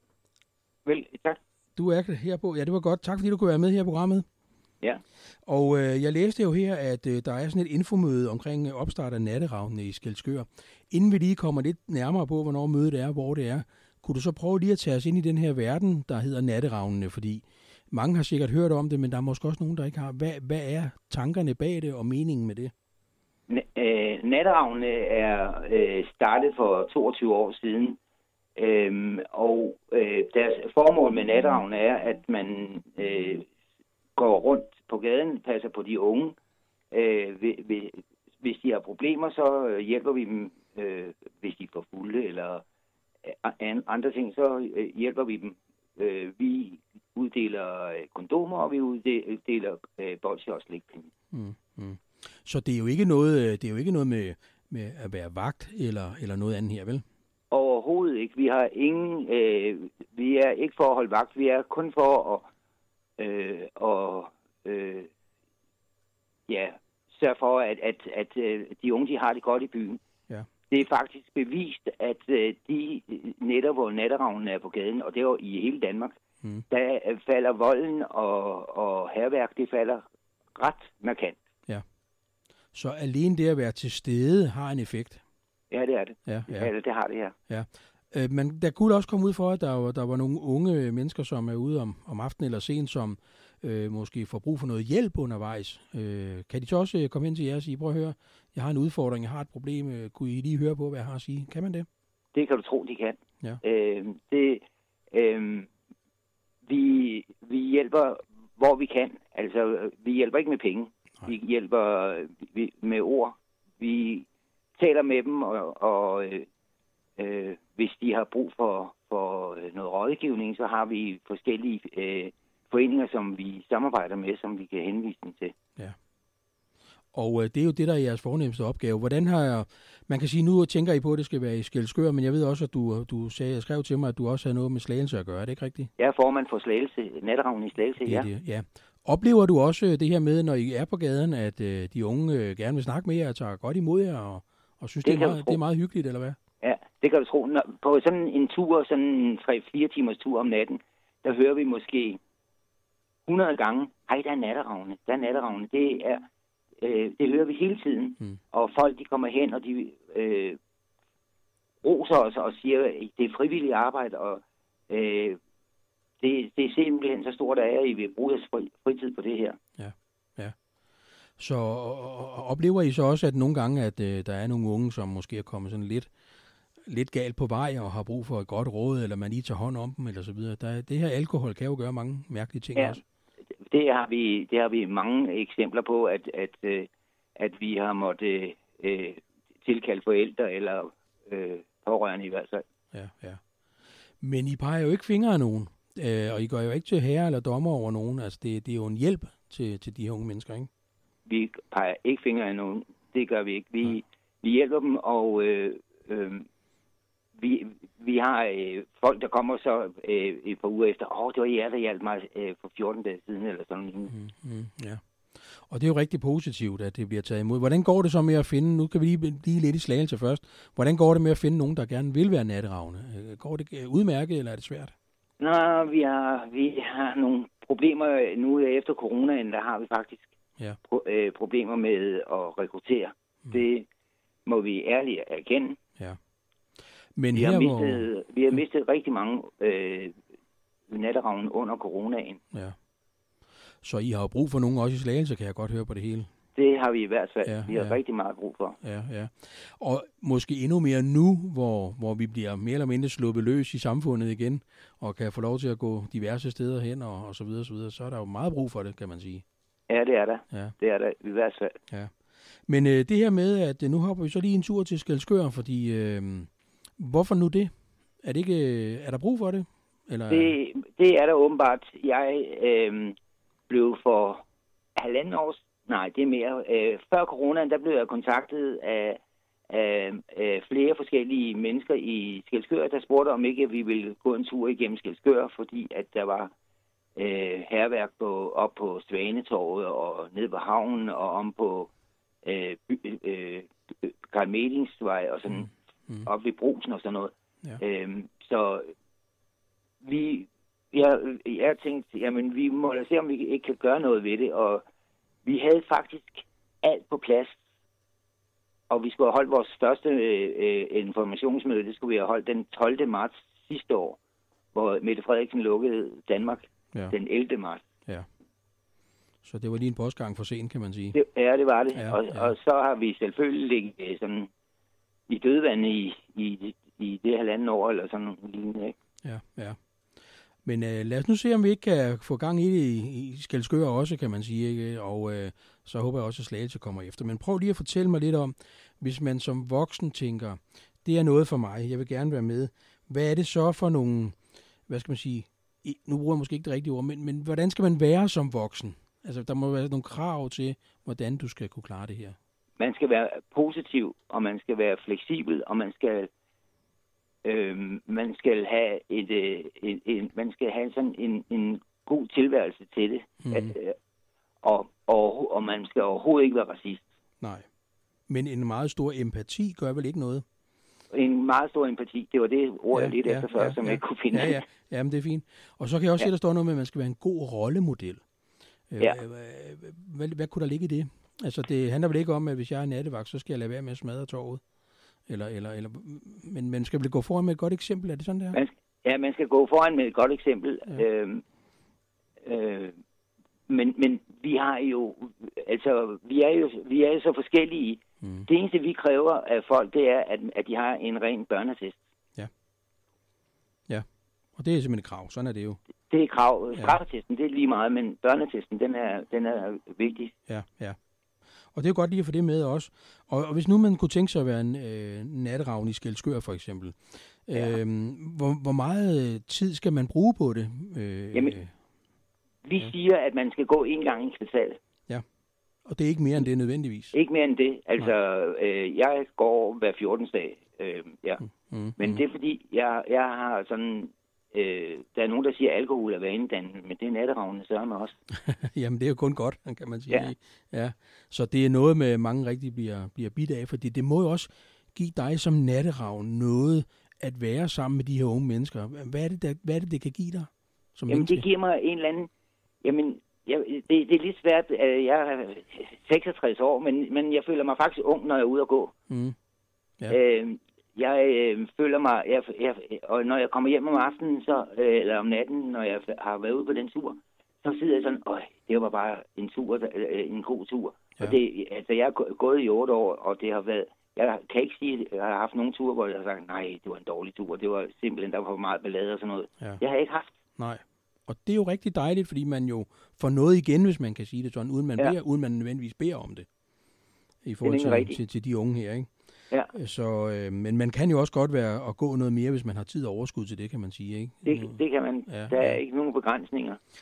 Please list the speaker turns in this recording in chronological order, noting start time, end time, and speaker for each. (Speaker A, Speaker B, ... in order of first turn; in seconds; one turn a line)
Speaker A: 0.8-1.4
Speaker B: 1.8-4.3
Speaker B: 5.5-22.7
Speaker A: 23.5-28.0
Speaker A: 28.6-33.5
Speaker A: 34.2-36.4
Speaker A: 36.9-42.6
Speaker A: 43.2-51.1
Speaker B: 51.3-57.0
Speaker A: 57.5-62.5
Speaker A: 63.2-65.1
Speaker A: 66.5-70.0
Speaker A: 70.7-76.2
Speaker A: 76.7-80.0
Speaker A: 80.6-81.4
Speaker B: 82.7-85.2
Speaker A: 85.7-87.3
Speaker B: 86.3-86.7
Speaker B: 87.5-101.9
Speaker A: 102.3-105.7
Speaker A: 106.7-116.5
Speaker A: 117.2-125.5
Speaker B: 127.1-135.9
Speaker A: 136.0-138.3
Speaker B: 138.0-146.4
Speaker A: 145.1-145.6
Speaker A: 146.6-152.2
Speaker A: 153.3-156.3
Speaker A: 156.8-160.6
Speaker A: 161.8-165.4
Speaker A: 166.2-169.6
Speaker B: 169.8-170.6
Speaker B: 171.4-176.1
Speaker B: 176.9-183.0
Speaker A: 183.7-192.6
Speaker B: 192.9-193.4
Speaker B: 194.2-200.7
Speaker A: 201.3-206.5
Speaker A: 207.4-214.1
Speaker B: 214.1-224.9
Speaker A: 225.4-230.3
Speaker A: 230.9-233.9
Speaker A: 234.5-235.8
Speaker B: 237.2-238.1
Speaker A: 237.3-240.2
Speaker A: 240.9-242.4
Speaker B: 243.8-246.3
Speaker A: 246.6-248.8
Speaker B: 247.4-248.0
Speaker B: 248.8-259.4
Speaker A: 259.9-261.8
Speaker B: 262.7-267.7
Speaker B: 268.2-270.6
Speaker A: 270.3-273.2
Speaker A: 273.7-274.4
Speaker A: 275.0-286.5
Speaker A: 287.2-291.9
Speaker A: 292.4-295.7
Speaker A: 296.2-298.9
Speaker A: 300.0-304.8
Speaker A: 305.4-307.6
Speaker A: 308.9-314.2
Speaker A: 314.7-317.9
Speaker B: 319.4-321.2
Speaker A: 321.1-324.5
Speaker B: 321.9-322.5
Speaker A: 325.3-328.9
Speaker B: 329.2-329.8
Speaker B: 330.6-344.4
Speaker B: 344.9-352.4
Speaker A: 352.8-356.3
Speaker A: 357.4-364.0
Speaker B: 363.4-363.7
Speaker A: 364.6-367.0
Speaker B: 367.4-367.7
Speaker B: 368.3-370.4
Speaker A: 371.1-374.6
Speaker B: 372.9-378.2
Speaker B: 378.9-384.6
Speaker B: 385.3-388.6
Speaker A: 388.5-391.4
Speaker A: 392.4-393.0
Speaker A: 393.7-402.0
Speaker B: 398.2-398.5
Speaker B: 403.9-405.8
Speaker A: 406.1-410.3
Speaker B: 410.5-411.0
Speaker B: 411.7-421.7
Speaker A: 421.3-421.6
Speaker A: 422.6-424.8
Speaker B: 425.9-427.1
Speaker A: 427.1-431.4
Speaker B: 431.7-432.2
Speaker A: 432.0-438.2
Speaker B: 438.3-451.5
Speaker A: 451.1-452.3
Speaker A: 452.8-458.9
Speaker B: 459.1-459.4
Speaker A: 460.1-480.4
Speaker B: 480.6-486.5
Speaker B: 487.4-489.1
Speaker A: 487.6-488.2
Speaker B: 489.7-495.8
Speaker A: 494.4-496.8